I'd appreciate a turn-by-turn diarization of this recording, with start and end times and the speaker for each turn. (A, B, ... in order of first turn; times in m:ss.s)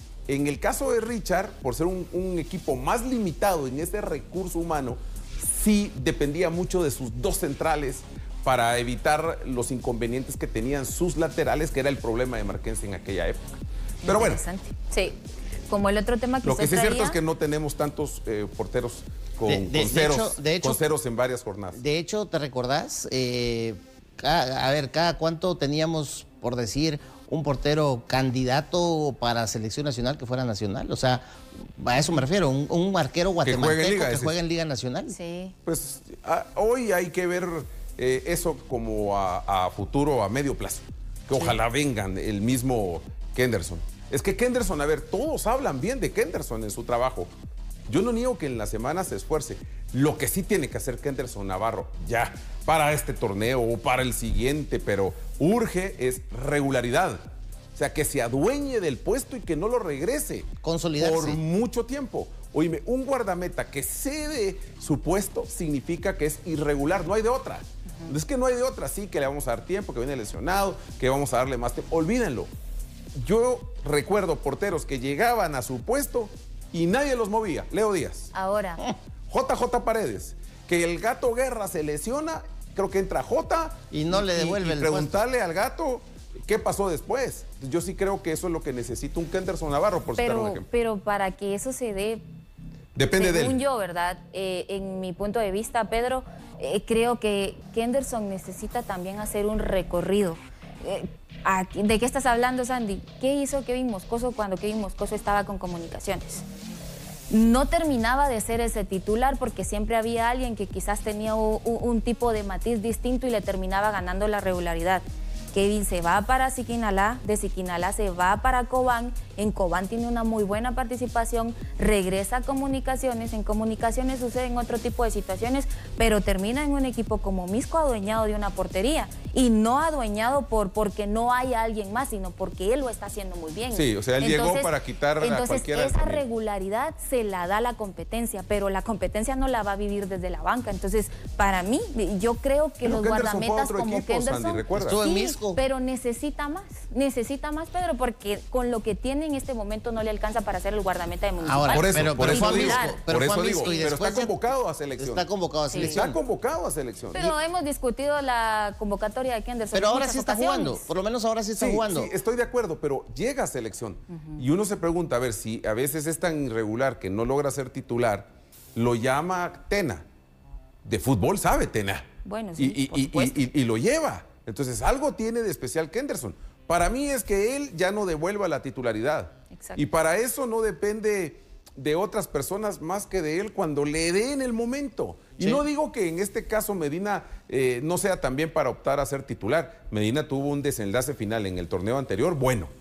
0:00.3-0:14.4 A
0:14.0-0:17.2 B
0:16.4-0:21.8 A
0:19.5-0:20.8 C
0:21.8-0:35.2 C
0:33.4-0:34.4 A
0:35.1-0:35.6 B
0:35.7-0:47.3 A
0:47.9-0:57.2 A
0:57.8-1:12.5 A
1:00.6-1:01.4 C
1:13.2-1:18.3 A
1:18.3-1:18.8 B
1:19.3-1:30.7 A
1:23.9-1:25.2 C
1:30.2-1:32.2 B
1:33.0-1:33.6 A
1:33.2-1:46.4 B
1:47.3-2:33.9 B
2:13.7-2:16.2 A
2:22.8-2:25.0 A
2:24.8-2:25.6 C
2:31.4-2:34.4 C
2:31.7-2:37.3 A
2:35.0-2:36.2 C
2:35.7-2:36.0 B
2:37.1-2:40.9 B
2:39.7-2:42.1 C
2:41.6-2:50.0 A
2:50.8-3:12.7 A
2:52.2-2:53.5 B
2:59.5-2:59.8 B